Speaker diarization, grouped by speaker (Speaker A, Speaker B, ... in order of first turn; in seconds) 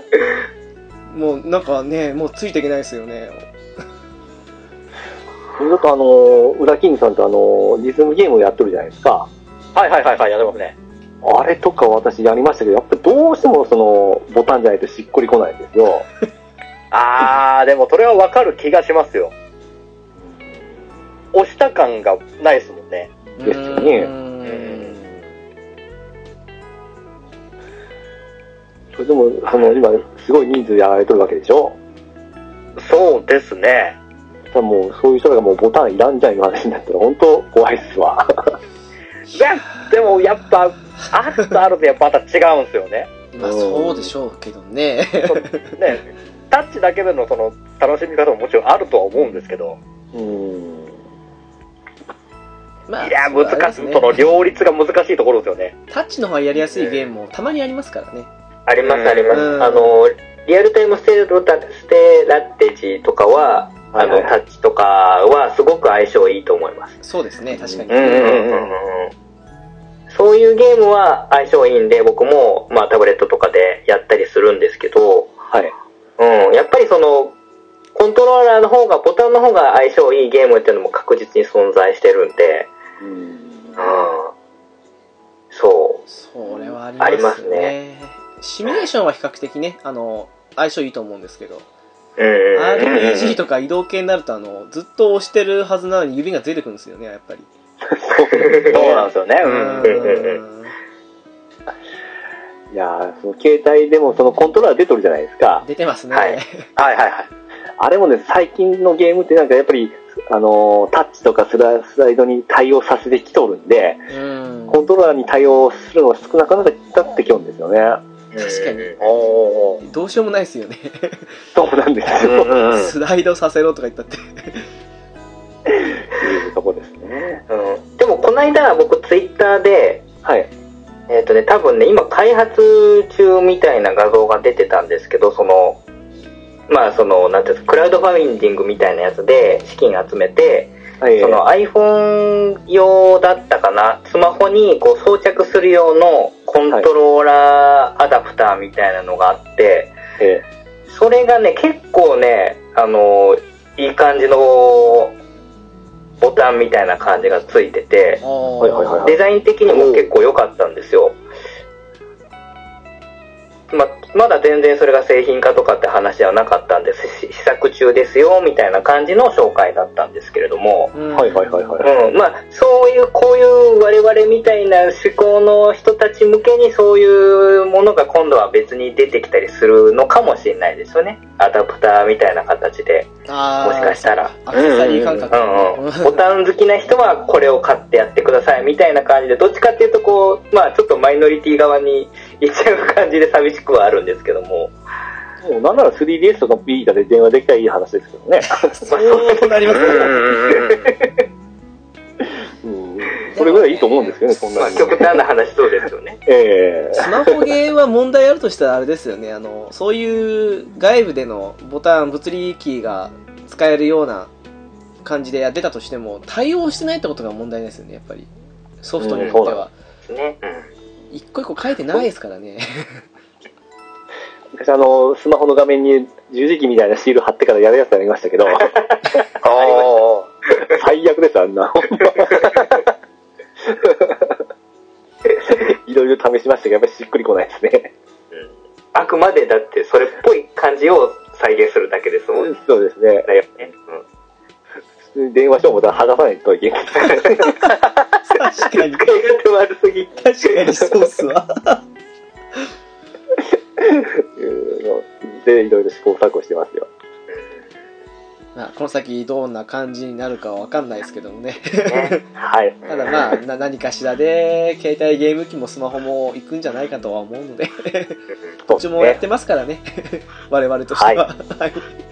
Speaker A: 1.1-3.5, 23.4-25.2, 43.3-45.7, 52.9-54.2, 55.9-58.3, 59.3-59.9, 67.0-68.4, 86.1-91.7, 92.5-97.5, 99.4-100.7, 105.6-106.7, 114.1-114.8, 118.4-119.1, 119.8-121.4, 122.7-124.7, 158.2-159.2, 170.9-171.8, 183.3-186.2, 198.7-200.4, 203.3-204.4, 206.9-214.3, 215.0-218.3, 218.8-219.7, 221.1-223.0, 248.3-249.2, 250.2-251.8, 258.6-262.2, 262.9-271.9
Speaker B: 5.5-9.3, 11.2-16.1, 23.4-24.1, 28.9-31.8, 34.5-38.5, 43.4-44.1, 50.1-51.0, 63.9-64.3, 67.5-68.1, 83.0-83.9, 97.9-99.0, 102.7-105.7, 107.8-114.1, 114.7-118.0, 121.5-122.7, 125.7-127.4, 130.2-130.5, 141.0-141.4, 158.6-160.1, 171.2-171.9, 195.4-198.7, 202.6-205.2, 206.3-207.4, 219.0-219.7, 224.6-229.2, 230.7-232.8, 233.7-234.4, 235.4-237.9, 242.3-243.3, 245.0-247.6, 253.8-256.9, 262.4-263.1, 268.7-269.2, 270.9-271.2
Speaker C: 9.8-10.7, 16.9-19.3, 21.3-23.1, 24.6-24.9, 32.8-34.0, 39.3-43.1, 45.3-49.8, 53.0-55.7, 58.8-59.4, 67.9-68.8, 93.0-93.3, 98.7-100.2, 106.8-107.3, 119.0-119.8, 122.2-122.9, 184.5-185.3, 199.7-200.9, 229.4-230.3
Speaker D: 58.7-67.0, 68.1-69.1, 70.1-75.4, 76.2-77.3, 77.9-82.7, 83.8-84.3, 85.5-86.0, 87.0-87.7, 92.2-93.2, 98.3-99.0, 99.8-100.4, 106.1-106.4, 118.3-118.9, 127.5-130.1, 131.1-135.8, 136.7-150.0, 150.9-155.2, 156.2-158.2, 159.0-161.2, 163.7-170.9, 171.8-184.3, 185.3-194.7, 198.9-200.9, 204.5-206.2, 220.1-220.7, 229.6-229.9, 232.3-232.5, 238.3-242.6, 243.3-244.0, 247.0-247.6, 248.6-250.9, 261.9-262.1, 262.9-263.1